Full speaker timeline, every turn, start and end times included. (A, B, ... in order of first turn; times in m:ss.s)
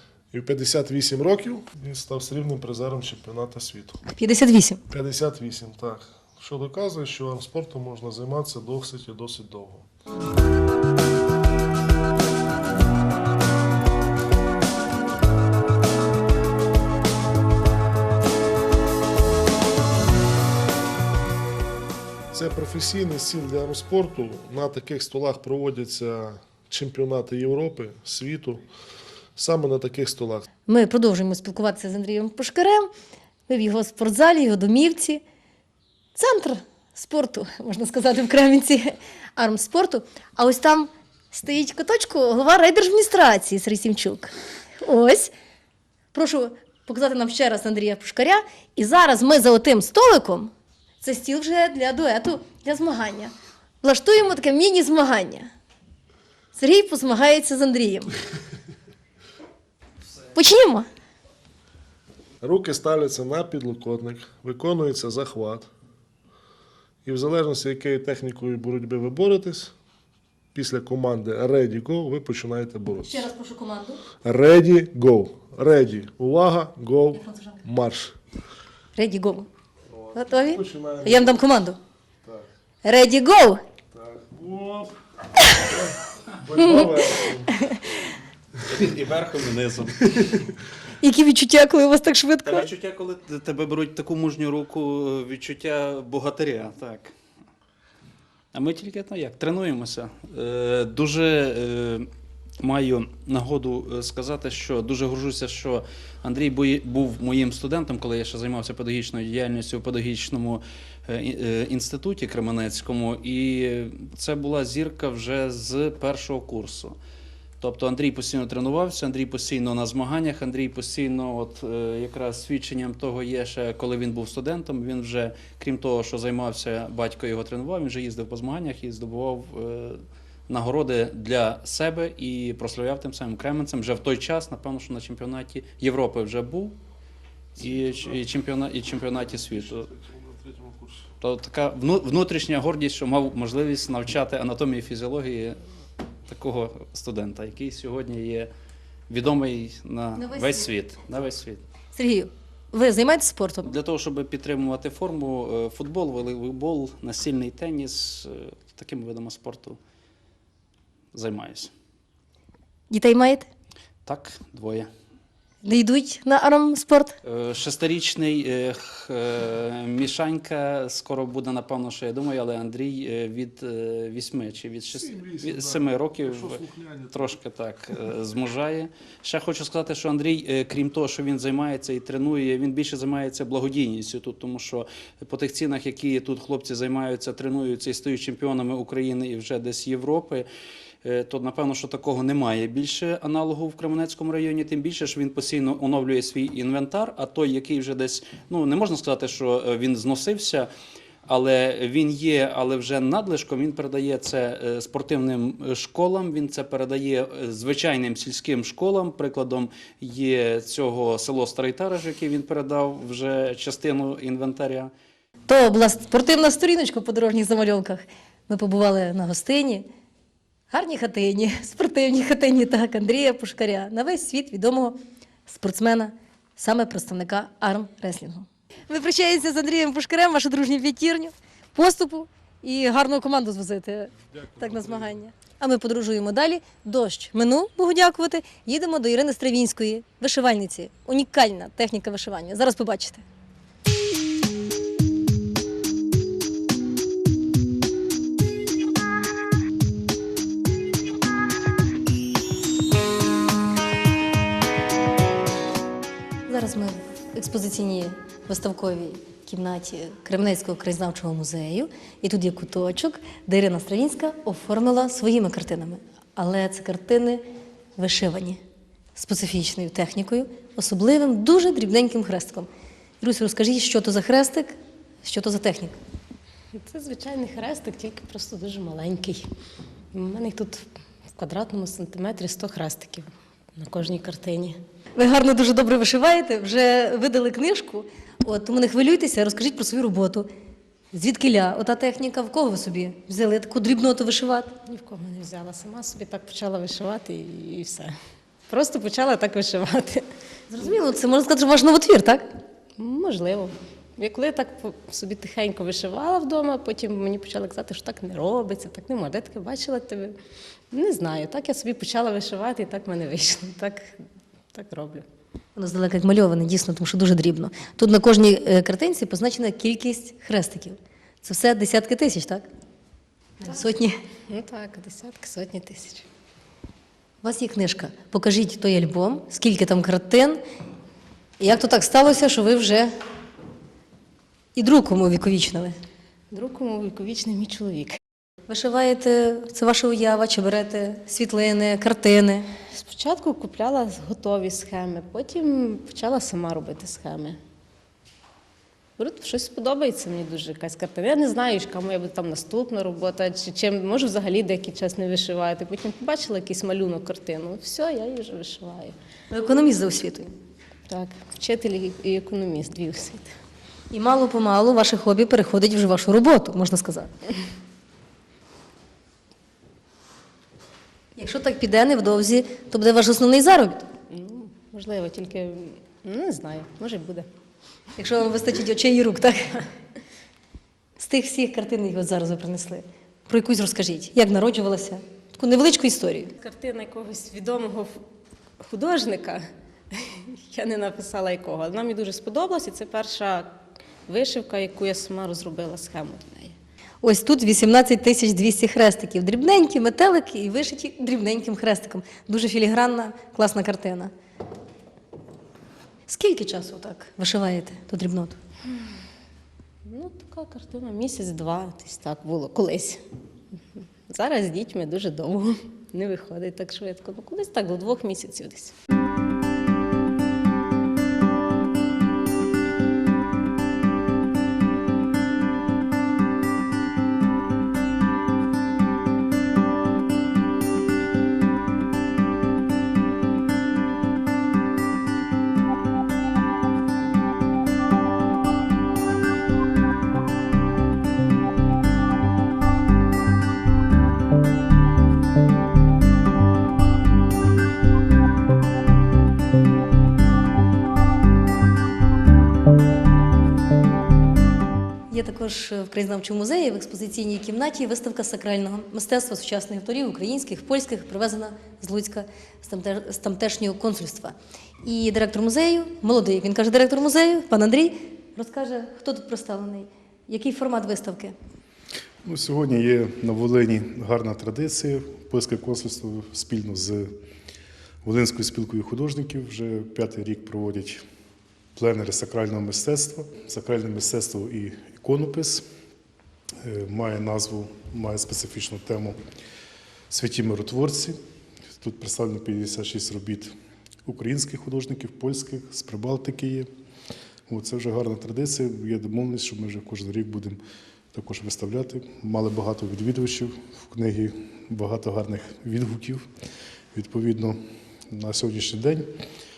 0:00.3-0:04.0 A
0:04.1-0:04.8 B
0:04.9-0:09.9 A
0:22.3-0:28.6 A
0:29.4-0:30.5 A
0:30.7-0:32.9 B
0:33.5-0:35.2 B
0:36.1-0:45.3 B
0:46.1-0:55.5 B
0:56.5-0:58.1 B
1:00.3-1:00.9 B
1:02.4-1:05.7 A
1:07.0-1:09.7 A
1:10.5-1:13.3 A
1:13.0-1:14.0 B
1:14.2-1:18.2 A
1:18.9-1:19.5 B
1:19.9-1:21.4 A
1:20.1-1:21.8 B
1:22.8-1:23.6 B
1:23.9-1:25.0 A
1:25.7-1:27.7 A
1:26.6-1:26.9 B
1:27.5-1:27.8 B
1:28.7-1:30.4 C
1:31.0-1:32.7 B
1:32.4-1:37.1 C
1:38.5-1:42.1 C
1:42.6-1:57.0 C
1:57.6-2:16.8 C
2:17.6-2:19.9 C
2:17.6-2:18.2 A
2:19.4-2:21.1 A
2:21.2-2:25.6 C
2:26.2-2:28.5 C
2:29.1-2:31.6 C
2:30.2-2:30.7 B
2:31.9-2:33.7 B
2:33.6-2:39.8 C
2:41.1-2:41.7 C
2:42.9-2:43.5 B
2:44.0-2:44.9 C
2:45.6-2:47.2 B
2:47.2-3:10.5 C
2:54.9-2:57.4 A
3:11.0-3:20.7 C
3:21.3-3:34.9 C
3:35.5-3:39.8 B
3:40.7-4:03.2 B
3:54.3-3:55.2 A
4:16.5-4:27.4 B
4:28.0-4:28.6 B
4:29.2-4:32.7 B
4:33.2-4:35.9 B
4:36.7-4:39.5 D
4:40.1-4:44.8 D
4:45.2-4:50.5 B
4:51.1-4:54.7 B
4:54.8-4:58.1 D
4:58.7-5:00.3 D
5:00.7-5:02.4 B
5:03.0-5:10.4 D
5:10.9-5:14.2 D
5:14.7-5:15.2 D
5:15.8-5:22.6 B
5:23.6-5:24.2 B
5:24.5-5:26.2 D
5:27.4-5:30.6 B
5:31.6-5:33.1 B
5:34.8-5:36.0 B
5:36.5-5:38.2 D
5:38.7-5:42.7 B
5:42.9-5:47.6 D
5:49.2-5:59.2 D
5:59.5-6:00.5 B
6:01.1-6:03.5 D
6:04.1-6:07.3 B
6:11.4-6:14.1 B
6:14.3-6:17.5 D
6:18.2-6:19.9 B
6:21.2-6:26.5 B
6:26.6-6:28.2 D
6:28.8-6:33.7 D
6:34.3-6:36.8 D
6:37.2-6:44.3 B
6:46.3-6:48.6 B
6:50.0-6:53.2 D
6:54.3-6:58.9 D
7:35.3-7:51.5 B
7:52.4-7:57.3 E
7:58.2-8:01.2 E
8:02.0-8:05.8 E
8:06.8-8:09.4 E
8:10.3-8:11.4 E
8:12.0-8:13.7 E
8:14.2-8:16.9 E
8:17.7-8:20.8 E
8:21.3-8:26.4 E
8:27.1-8:27.8 E
8:28.3-8:29.3 E